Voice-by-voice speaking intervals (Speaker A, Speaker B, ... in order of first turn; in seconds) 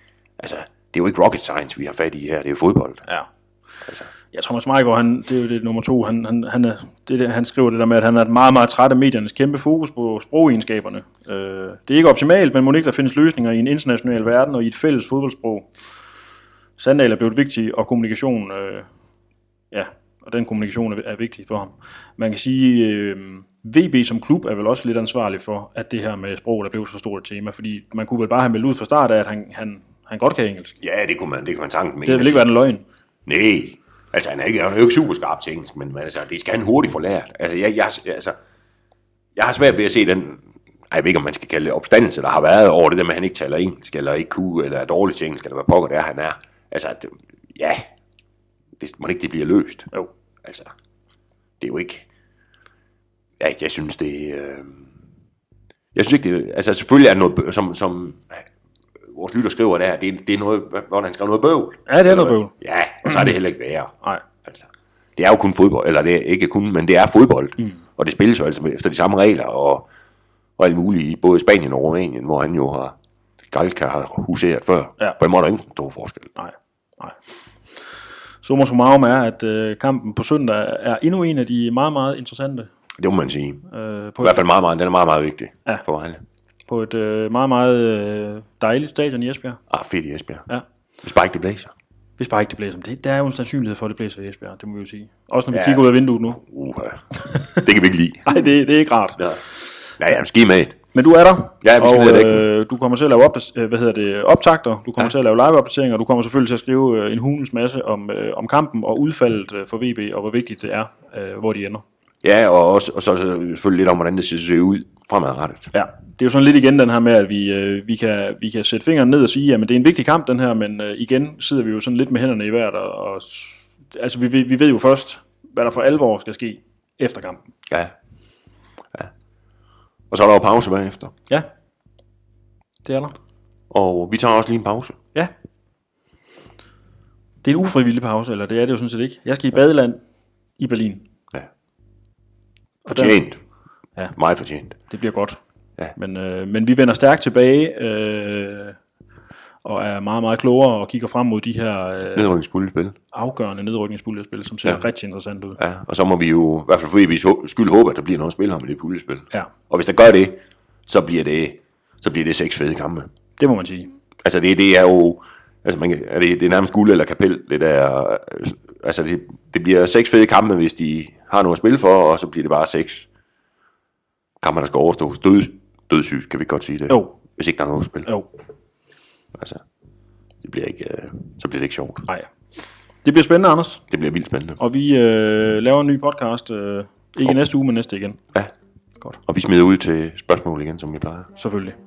Speaker A: 0.4-3.0, 30.8-32.5, 33.3-38.4, 39.4-47.9, 48.8-49.9, 50.4-50.7, 51.6-52.1, 53.4-54.9, 55.9-58.5, 59.1-69.9, 70.6-73.0, 73.5-76.3, 83.0-83.7, 84.2-86.2, 89.7-90.5, 91.0-91.7, 95.5-95.9, 96.4-98.3, 100.0-100.8, 101.6-102.5, 112.2-115.7, 127.7-127.9, 130.1-131.1, 133.7-135.0, 142.9-143.4, 144.2-144.8, 152.2-153.0, 155.6-163.1, 164.2-173.1, 174.4-178.1, 179.3-179.6, 180.4-182.1, 183.9-184.6, 189.2-191.3
Speaker B: 4.3-15.7, 16.8-18.9, 19.7-30.8, 32.1-32.8, 61.9-62.5, 76.4-77.2, 78.4-82.7, 83.7-84.4, 86.7-89.6, 92.2-96.4, 97.3-97.6, 98.2-99.3, 100.9-111.8, 115.7-127.4, 132.8-133.1, 137.4-140.0, 140.6-141.1, 142.9-143.2, 144.9-145.4, 145.9-148.8, 149.7-152.3, 153.1-155.6, 163.4-163.9, 176.9-177.2, 183.0-183.8, 184.6-188.2, 191.4-191.8